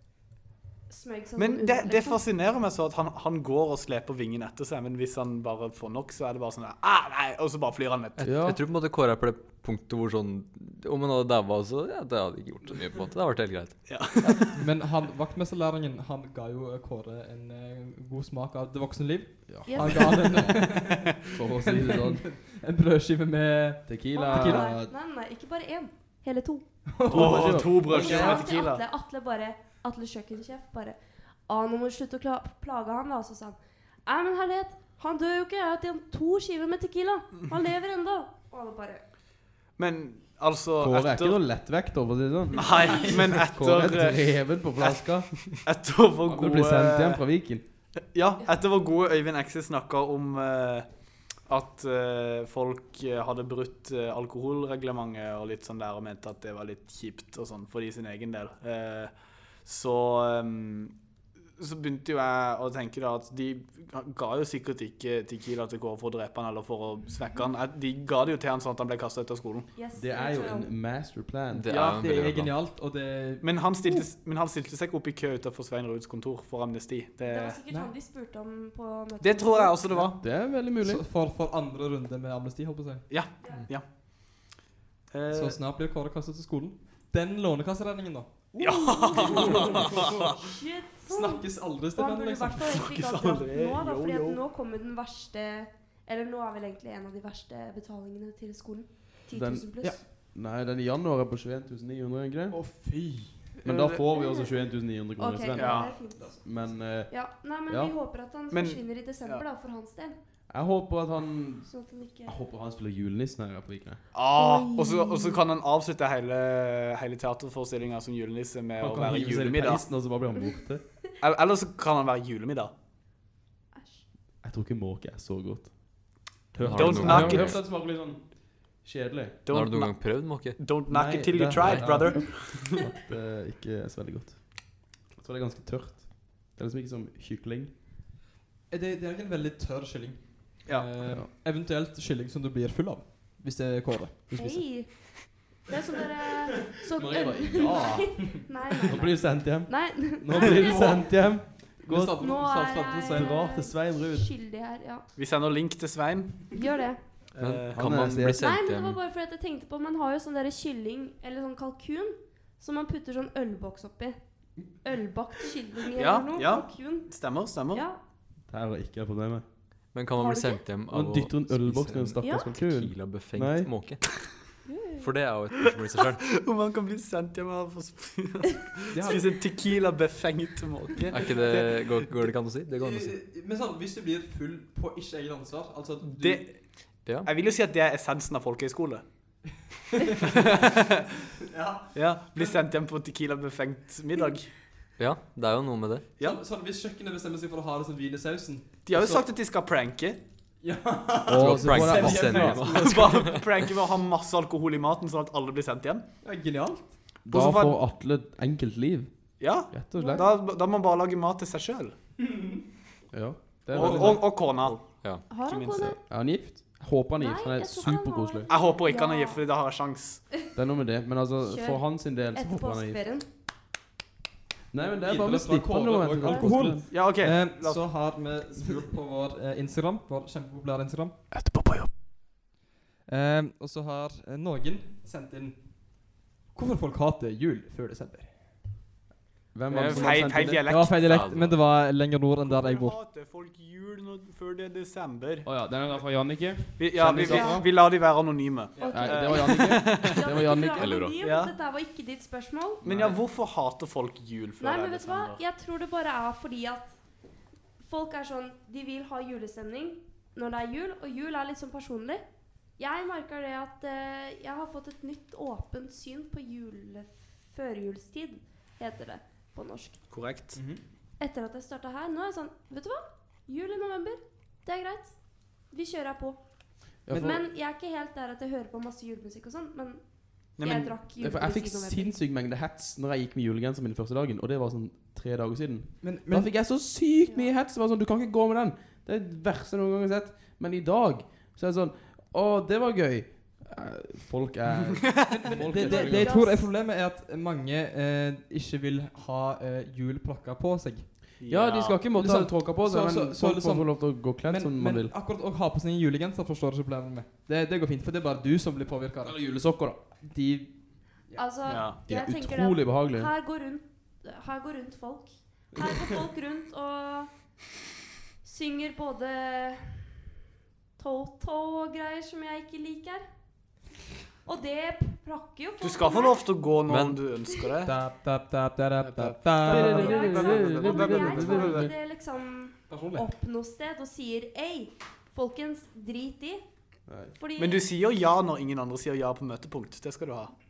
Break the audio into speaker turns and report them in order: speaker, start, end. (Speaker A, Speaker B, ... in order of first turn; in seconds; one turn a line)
Speaker A: 0.9-2.2
Speaker B: 1.4-8.2
Speaker C: 8.2-13.9
Speaker D: 8.2-8.6
Speaker B: 13.9-14.6
Speaker E: 14.4-24.8
Speaker D: 19.5-22.2
Speaker A: 19.7-20.5
Speaker D: 23.9-24.9
Speaker A: 24.1-26.6
Speaker E: 26.9-28.5
Speaker D: 27.1-28.2
Speaker B: 27.1-28.8
Speaker A: 28.0-39.0
Speaker B: 39.8-41.4
Speaker D: 40.8-45.5
Speaker B: 42.5-47.2
Speaker A: 42.6-43.2
Speaker D: 46.2-47.6
Speaker B: 48.0-50.9
Speaker B: 51.4-59.1
Speaker B: 59.6-60.9
Speaker B: 61.6-69.7
Speaker A: 69.7-70.7
Speaker D: 69.9-71.7
Speaker C: 71.5-72.5
Speaker B: 71.7-72.0
Speaker E: 71.7-73.5
Speaker B: 73.4-77.6
Speaker A: 77.2-79.8
Speaker B: 79.2-80.2
Speaker D: 80.2-81.0
Speaker E: 80.7-83.1
Speaker B: 83.1-83.8
Speaker A: 83.4-83.7
Speaker B: 85.1-85.6
Speaker E: 85.3-88.5
Speaker B: 88.6-90.4
Speaker A: 88.6-100.0
Speaker E: 89.2-90.2
Speaker E: 91.1-92.8
Speaker B: 92.7-94.4
Speaker D: 99.3-102.6
Speaker E: 102.5-103.6
Speaker B: 103.6-104.0
Speaker D: 103.6-107.9
Speaker A: 104.1-110.2
Speaker B: 105.5-106.0
Speaker B: 108.5-109.4
Speaker D: 110.5-114.0
Speaker A: 111.7-112.4
Speaker B: 114.1-119.8
Speaker A: 114.3-115.4
Speaker D: 118.8-120.9
Speaker B: 121.2-122.7
Speaker A: 123.7-124.0
Speaker D: 124.4-129.4
Speaker C: 126.6-127.6
Speaker B: 126.6-127.6
Speaker B: 129.4-132.7
Speaker C: 129.5-130.6
Speaker D: 130.9-137.7
Speaker C: 131.6-131.9
Speaker E: 131.6-132.2
Speaker A: 132.1-132.5
Speaker E: 138.7-144.2
Speaker B: 140.6-140.9
Speaker D: 144.3-144.7
Speaker A: 144.3-151.1
Speaker D: 146.9-152.1
Speaker E: 150.6-153.4
Speaker A: 152.2-155.1
Speaker D: 153.1-154.3
Speaker B: 155.2-156.5
Speaker A: 156.5-157.0
Speaker B: 157.3-157.8
Speaker C: 157.4-159.0
Speaker D: 157.7-158.5
Speaker A: 158.4-168.0
Speaker B: 165.9-167.8
Speaker D: 168.5-169.4
Speaker C: 169.9-174.2
Speaker A: 170.2-170.6
Speaker D: 170.9-173.7
Speaker A: 172.2-172.5
Speaker A: 174.7-175.1
Speaker C: 175.0-176.3
Speaker B: 176.4-181.5
Speaker E: 178.9-179.3
Speaker C: 181.1-183.2
Speaker E: 181.3-181.8
Speaker E: 182.8-186.5
Speaker B: 186.1-189.0
Speaker E: 190.2-190.5
Speaker B: 190.2-191.0
Speaker E: 191.4-192.6
Speaker B: 191.9-194.5
Speaker C: 195.0-196.1
Speaker E: 196.2-199.3
Speaker B: 198.8-200.2
Speaker E: 200.6-203.2
Speaker D: 201.2-202.8
Speaker C: 201.3-203.4
Speaker B: 202.6-206.1
Speaker E: 206.2-207.2
Speaker B: 207.2-207.8
Speaker D: 207.2-210.2
Speaker B: 209.4-211.9
Speaker A: 209.9-210.3
Speaker E: 212.2-212.6
Speaker D: 213.1-214.8
Speaker E: 213.7-214.4
Speaker B: 213.7-215.9
Speaker A: 215.3-216.0
Speaker D: 215.8-218.5
Speaker A: 217.2-219.4
Speaker B: 218.5-220.3
Speaker D: 220.5-223.0
Speaker A: 221.4-223.2
Speaker D: 224.7-226.9
Speaker E: 224.8-231.2
Speaker A: 226.2-226.5
Speaker B: 226.9-228.0
Speaker B: 231.3-231.9
Speaker E: 233.1-238.6
Speaker D: 239.5-240.6
Speaker B: 239.7-241.2
Speaker E: 239.9-243.0
Speaker C: 241.0-241.7
Speaker B: 242.4-245.5
Speaker D: 245.4-247.7
Speaker B: 246.8-250.4
Speaker A: 247.2-247.6
Speaker E: 248.8-249.1
Speaker A: 248.8-252.8
Speaker D: 248.9-251.0
Speaker C: 250.8-251.2
Speaker B: 251.2-251.5
Speaker D: 252.8-253.2
Speaker B: 252.8-255.4
Speaker A: 254.6-256.9
Speaker A: 257.8-262.2
Speaker A: 262.8-270.0
Speaker B: 270.1-270.6
Speaker E: 270.5-270.8
Speaker A: 271.2-282.2
Speaker D: 277.1-277.4
Speaker E: 277.1-277.4
Speaker B: 280.6-280.9
Speaker D: 281.2-296.4
Speaker E: 286.0-286.5
Speaker A: 287.2-287.5
Speaker E: 295.3-301.2
Speaker A: 295.6-296.7
Speaker B: 301.4-302.0
Speaker D: 301.4-305.1
Speaker E: 302.1-309.6
Speaker D: 309.2-310.0
Speaker E: 310.2-311.6
Speaker A: 311.4-317.3
Speaker B: 311.7-312.0
Speaker D: 312.1-313.3
Speaker A: 318.4-320.1
Speaker A: 321.0-323.2
Speaker A: 324.4-326.5
Speaker B: 325.8-328.0
Speaker C: 326.9-327.2
Speaker E: 327.8-330.4
Speaker B: 329.0-331.9
Speaker D: 329.6-331.9
Speaker A: 329.8-336.6
Speaker E: 331.6-331.9
Speaker E: 332.9-333.3
Speaker D: 337.1-337.3
Speaker A: 337.3-337.8
Speaker B: 337.6-340.5